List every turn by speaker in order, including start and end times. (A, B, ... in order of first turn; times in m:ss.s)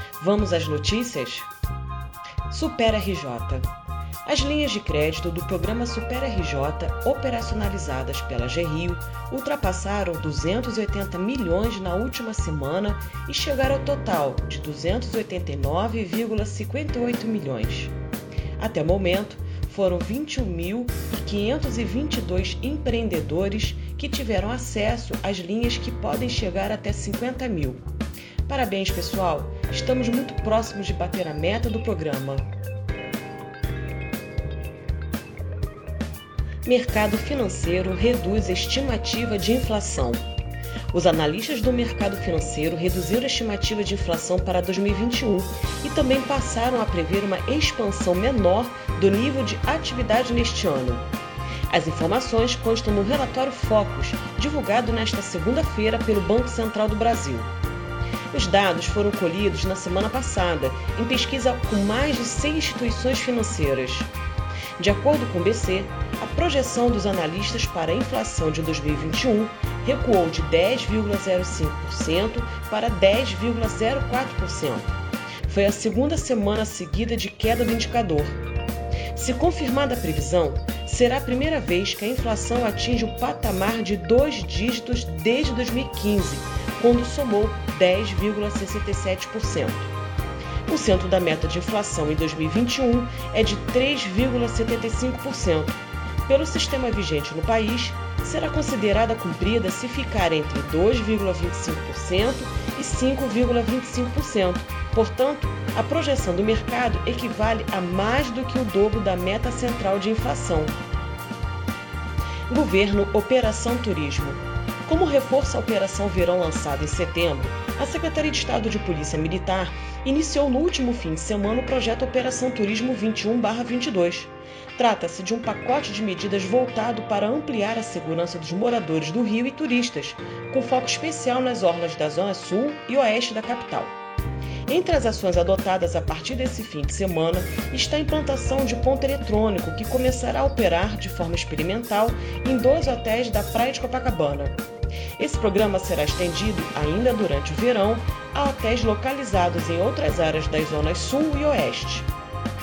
0:00.2-0:01.5 A
0:02.5-0:03.7 A
0:04.2-0:17.9 A
0:18.6-0:27.8 A
0:28.4-0:32.5 A
0:36.6-0:40.2 A
0:40.9-0:51.1 A
0:51.7-0:57.5 A
0:58.3-1:04.1 A
1:04.8-1:18.4 A
1:19.1-1:29.9 A
1:30.7-1:50.8 A
1:52.5-2:14.0 A
2:14.7-2:24.6 A
2:25.2-2:32.1 A